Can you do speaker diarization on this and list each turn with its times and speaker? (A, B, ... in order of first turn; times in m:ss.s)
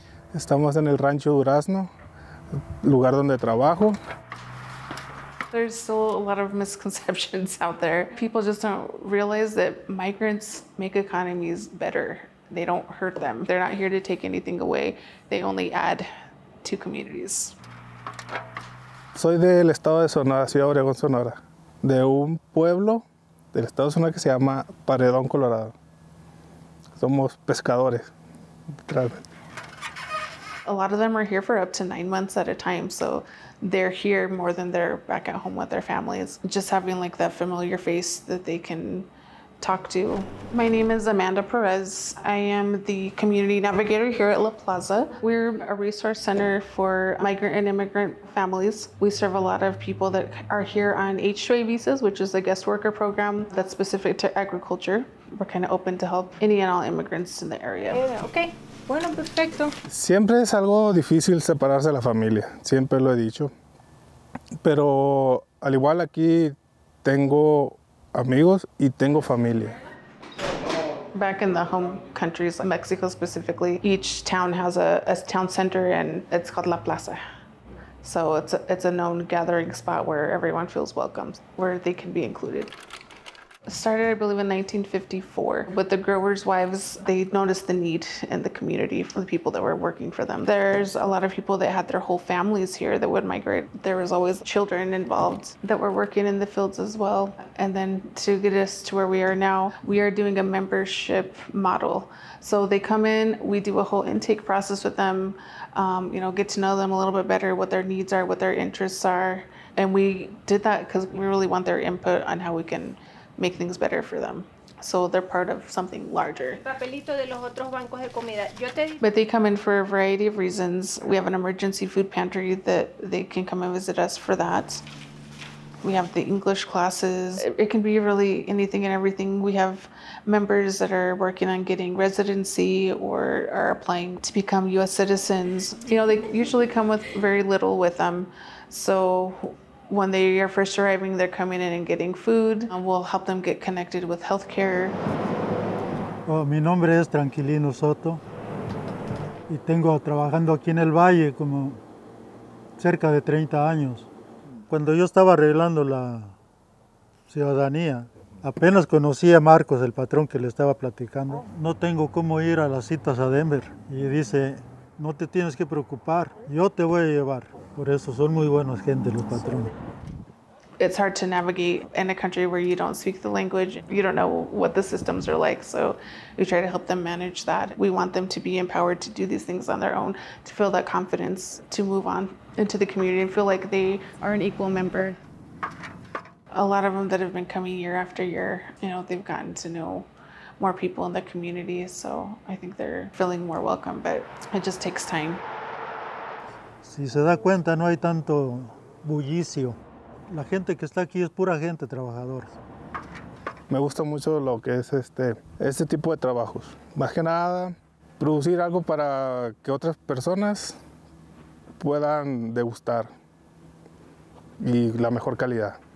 0:00.3-0:01.9 A
0:02.8-0:04.0 A
0:05.5-0:16.1 B
0:16.6-0:17.6 B
0:19.1-0:25.7 A
0:27.0-0:28.1 A
0:28.9-0:29.2 A
0:30.6-0:39.1 B
0:39.6-0:58.0 B
0:57.9-0:59.7 C
0:59.9-1:03.5 A
1:04.6-1:09.7 A
1:11.1-1:17.2 B
1:18.0-1:22.7 B
1:23.6-1:56.6 B
1:56.6-1:59.0 C
1:59.0-2:04.8 B
2:05.8-2:25.0 B
2:26.2-2:28.2 D
2:29.5-2:31.8 D
2:32.8-2:34.1 D
2:34.7-2:36.3 D
2:37.3-2:49.7 D
2:50.8-3:05.2 B
3:06.5-3:10.1 B
3:10.6-3:15.4 B
3:16.8-3:19.8 D
3:20.3-3:22.5 D
3:23.7-3:30.8 A
3:31.8-3:33.1 A
3:34.6-3:35.8 A